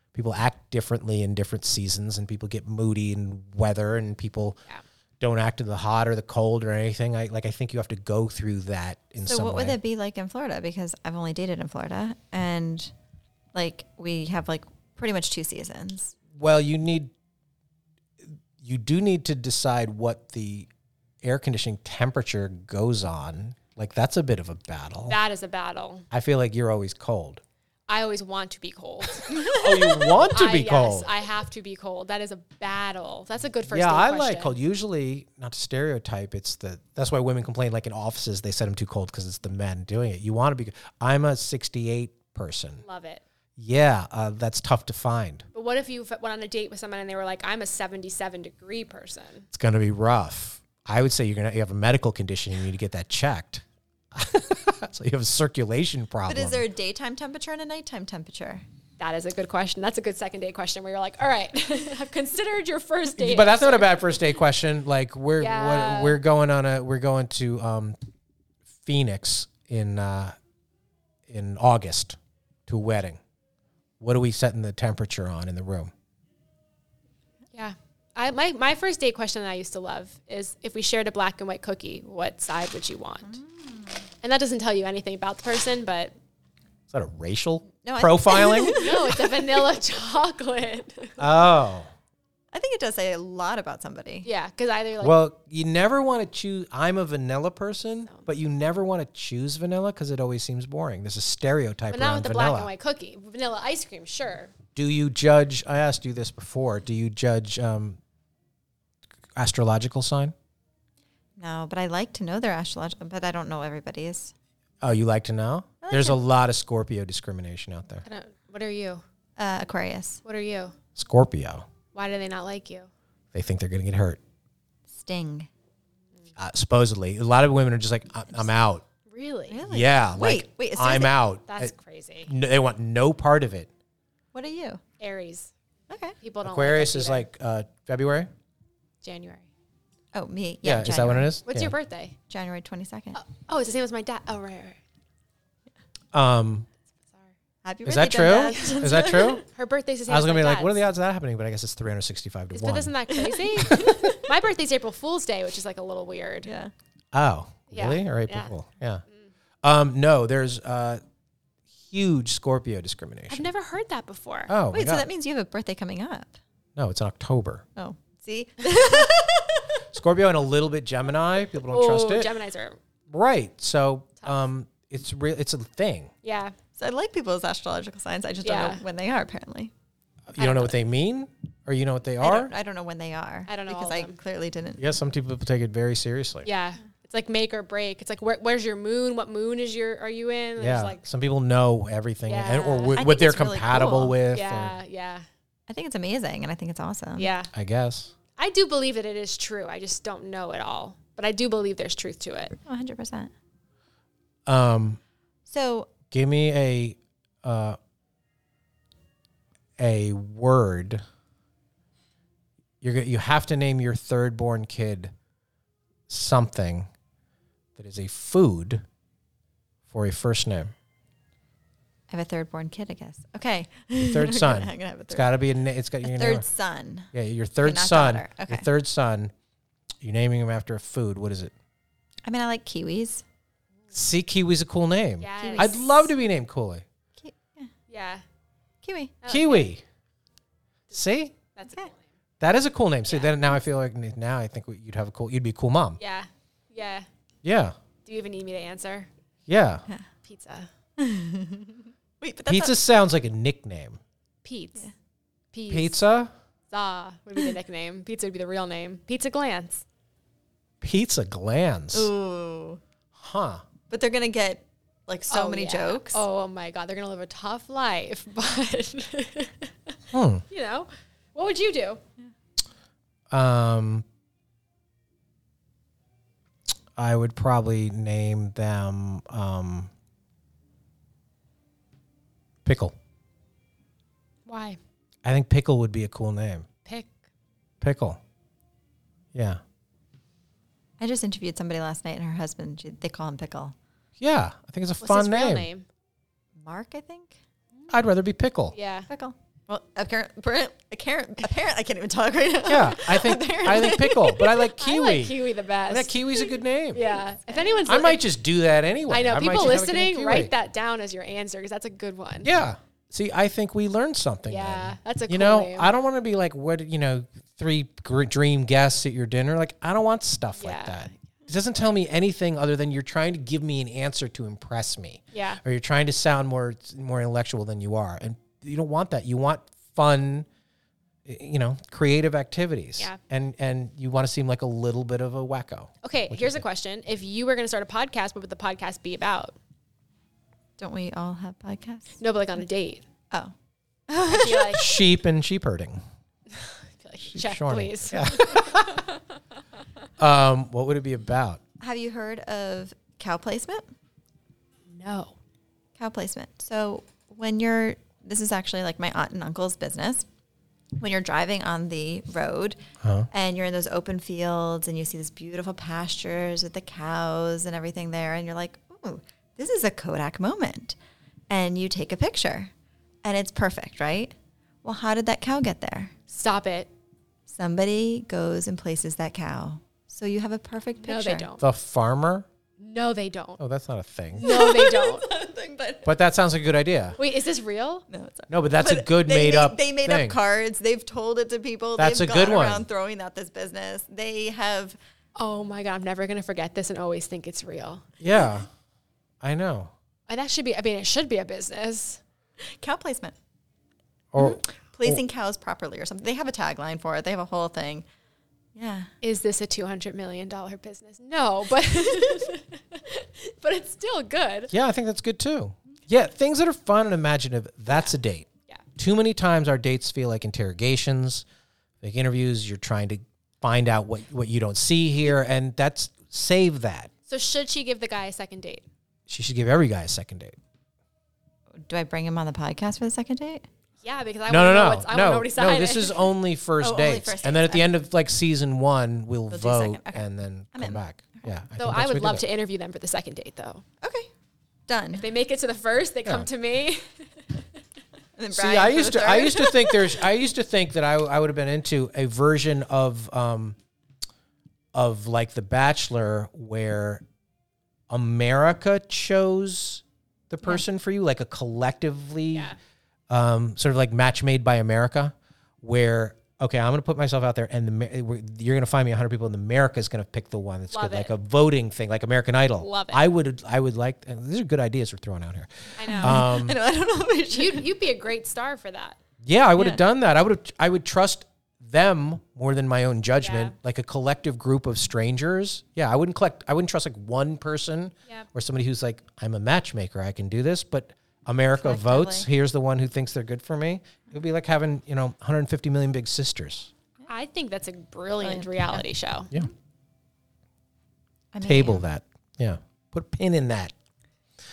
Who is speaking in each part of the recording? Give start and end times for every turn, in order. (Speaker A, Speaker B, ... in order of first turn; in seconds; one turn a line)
Speaker A: 0.1-4.6
Speaker A: 5.2-9.8
Speaker B: 9.2-12.9
Speaker B: 13.5-16.1
Speaker A: 16.3-17.1
Speaker A: 18.3-20.7
Speaker A: 21.2-25.2
Speaker C: 25.1-26.1
Speaker A: 26.1-27.4
Speaker C: 27.9-34.5
Speaker A: 29.4-31.1
Speaker A: 33.7-42.8
Speaker C: 42.8-43.2
Speaker A: 43.6-45.4
Speaker C: 45.5-49.5
Speaker A: 49.5-56.6
Speaker B: 56.3-58.6
Speaker C: 59.0-64.0
Speaker A: 63.1-68.0
Speaker C: 65.4-66.2
Speaker A: 68.8-70.3
Speaker A: 71.3-73.2
Speaker A: 74.0-75.9
Speaker C: 77.5-83.3
Speaker B: 83.2-84.0
Speaker C: 84.2-86.1
Speaker A: 86.9-89.0
Speaker B: 87.8-89.6
Speaker C: 88.8-91.2
Speaker A: 91.2-91.9
Speaker B: 92.5-94.3
Speaker C: 94.2-95.2
Speaker A: 95.0-102.7
Speaker C: 101.9-104.5
Speaker A: 104.7-108.0
Speaker A: 109.3-110.3
Speaker B: 111.4-114.3
Speaker A: 114.8-118.0
Speaker B: 115.8-116.2
Speaker C: 118.0-119.0
Speaker B: 119.4-120.2
Speaker C: 120.2-120.7
Speaker A: 121.0-121.7
Speaker C: 121.9-122.9
Speaker A: 123.3-124.2
Speaker B: 124.9-125.5
Speaker A: 126.4-128.8
Speaker C: 129.1-129.6
Speaker B: 129.5-131.1
Speaker A: 129.7-131.7
Speaker C: 131.5-132.3
Speaker A: 132.2-133.7
Speaker B: 134.3-134.8
Speaker C: 135.0-135.5
Speaker B: 135.9-136.2
Speaker C: 136.2-137.2
Speaker A: 136.4-138.3
Speaker C: 139.0-139.4
Speaker B: 140.1-141.3
Speaker A: 140.6-141.7
Speaker C: 141.5-142.2
Speaker B: 142.3-143.2
Speaker C: 143.1-144.8
Speaker A: 146.1-146.7
Speaker B: 147.6-149.4
Speaker A: 147.8-149.4
Speaker C: 148.4-150.8
Speaker A: 150.1-152.9
Speaker C: 152.5-156.5
Speaker A: 153.6-154.2
Speaker B: 156.4-156.7
Speaker A: 157.1-159.0
Speaker C: 157.7-158.5
Speaker A: 159.6-161.0
Speaker A: 161.9-163.4
Speaker C: 163.3-164.5
Speaker A: 164.5-165.1
Speaker B: 164.7-166.4
Speaker A: 166.8-167.6
Speaker B: 167.8-169.8
Speaker A: 169.9-172.3
Speaker C: 171.7-172.8
Speaker A: 173.1-176.1
Speaker C: 176.2-176.6
Speaker B: 176.8-179.7
Speaker C: 178.4-178.8
Speaker A: 180.3-182.5
Speaker B: 182.2-184.8
Speaker C: 183.5-184.2
Speaker A: 184.8-186.5
Speaker C: 186.4-191.0
Speaker A: 190.6-194.8
Speaker C: 192.3-193.0
Speaker B: 192.9-194.2
Speaker C: 194.3-195.2
Speaker B: 195.7-197.3
Speaker C: 197.2-197.5
Speaker A: 197.5-198.1
Speaker C: 198.4-202.6
Speaker B: 202.6-203.3
Speaker A: 204.4-205.0
Speaker B: 205.4-205.9
Speaker A: 206.1-207.8
Speaker A: 209.8-211.0
Speaker A: 212.8-215.1
Speaker A: 216.1-216.9
Speaker A: 217.8-218.8
Speaker A: 219.9-220.7
Speaker B: 222.1-225.4
Speaker A: 224.0-226.4
Speaker B: 226.0-227.1
Speaker A: 227.1-229.3
Speaker B: 227.6-228.7
Speaker A: 230.0-231.5
Speaker B: 232.2-233.2
Speaker A: 233.9-236.8
Speaker C: 235.2-236.1
Speaker B: 235.4-235.9
Speaker B: 237.2-237.7
Speaker C: 237.9-238.2
Speaker B: 238.8-239.2
Speaker C: 239.2-239.7
Speaker A: 239.3-239.8
Speaker A: 240.9-241.4
Speaker C: 241.6-242.0
Speaker A: 242.4-246.0
Speaker C: 243.1-243.3
Speaker C: 246.0-247.1
Speaker A: 247.4-247.7
Speaker C: 248.1-249.1
Speaker A: 249.5-249.8
Speaker C: 250.2-250.7
Speaker B: 251.0-252.7
Speaker A: 252.5-254.0
Speaker C: 254.4-254.9
Speaker C: 255.5-255.9
Speaker A: 255.7-256.3
Speaker C: 256.7-259.8
Speaker A: 260.8-262.1
Speaker B: 261.9-262.8
Speaker A: 263.1-263.6
Speaker B: 263.9-266.2
Speaker C: 265.3-269.9
Speaker A: 270.1-270.4
Speaker C: 270.5-272.0
Speaker A: 273.3-274.0
Speaker A: 276.9-279.9
Speaker A: 282.6-282.9
Speaker C: 284.4-284.8
Speaker A: 285.2-286.7
Speaker A: 287.8-288.2
Speaker A: 289.3-289.6
Speaker B: 291.0-293.7
Speaker A: 294.2-295.7
Speaker C: 295.0-295.9
Speaker B: 296.6-297.4
Speaker A: 297.9-298.7
Speaker C: 298.7-299.1
Speaker B: 299.1-304.5
Speaker A: 302.6-307.0
Speaker C: 304.8-306.4
Speaker C: 306.9-308.2
Speaker B: 307.1-307.9
Speaker A: 307.9-310.5
Speaker C: 309.1-312.5
Speaker A: 312.4-330.4
Speaker C: 314.5-315.9
Speaker C: 320.6-321.1
Speaker C: 325.3-325.6
Speaker A: 331.2-336.6
Speaker C: 336.0-339.6
Speaker B: 340.8-342.2
Speaker C: 342.2-343.0
Speaker B: 344.1-344.9
Speaker C: 344.3-344.9
Speaker A: 344.6-346.0
Speaker C: 346.5-349.2
Speaker A: 347.2-349.0
Speaker A: 350.2-351.6
Speaker B: 351.8-353.9
Speaker C: 354.9-355.3
Speaker B: 356.0-360.2
Speaker B: 361.0-362.8
Speaker A: 363.0-363.3
Speaker B: 363.3-371.0
Speaker B: 371.5-372.7
Speaker B: 373.2-376.1
Speaker C: 376.3-376.9
Speaker B: 377.5-381.5
Speaker C: 381.0-381.6
Speaker A: 381.6-382.5
Speaker C: 382.8-383.6
Speaker A: 383.6-384.5
Speaker C: 384.4-385.3
Speaker B: 384.4-386.1
Speaker A: 386.0-387.2
Speaker C: 387.2-388.1
Speaker B: 388.1-395.0
Speaker A: 388.5-390.4
Speaker A: 392.0-392.9
Speaker C: 395.4-398.0
Speaker A: 398.2-398.7
Speaker A: 399.4-399.9
Speaker C: 400.3-402.2
Speaker B: 402.6-403.4
Speaker A: 404.3-405.2
Speaker B: 404.4-408.1
Speaker B: 408.7-409.1
Speaker C: 409.2-414.7
Speaker A: 414.7-421.4
Speaker A: 422.0-427.1
Speaker C: 427.3-428.8
Speaker A: 429.3-430.6
Speaker B: 431.8-433.6
Speaker C: 434.0-436.3
Speaker A: 434.5-442.4
Speaker B: 436.8-437.9
Speaker B: 439.5-441.0
Speaker C: 441.8-443.8
Speaker B: 444.0-444.3
Speaker B: 444.9-445.3
Speaker C: 445.1-447.4
Speaker B: 448.4-450.2
Speaker A: 448.5-453.8
Speaker A: 454.9-457.2
Speaker A: 458.1-462.7
Speaker A: 463.3-476.8
Speaker C: 470.9-471.3
Speaker C: 472.8-473.2
Speaker C: 476.0-476.6
Speaker B: 476.0-477.9
Speaker C: 477.5-479.2
Speaker A: 479.4-496.9
Speaker C: 483.4-483.7
Speaker B: 491.8-492.5
Speaker C: 497.3-499.5
Speaker B: 498.4-499.0
Speaker B: 501.5-502.0
Speaker A: 501.6-503.9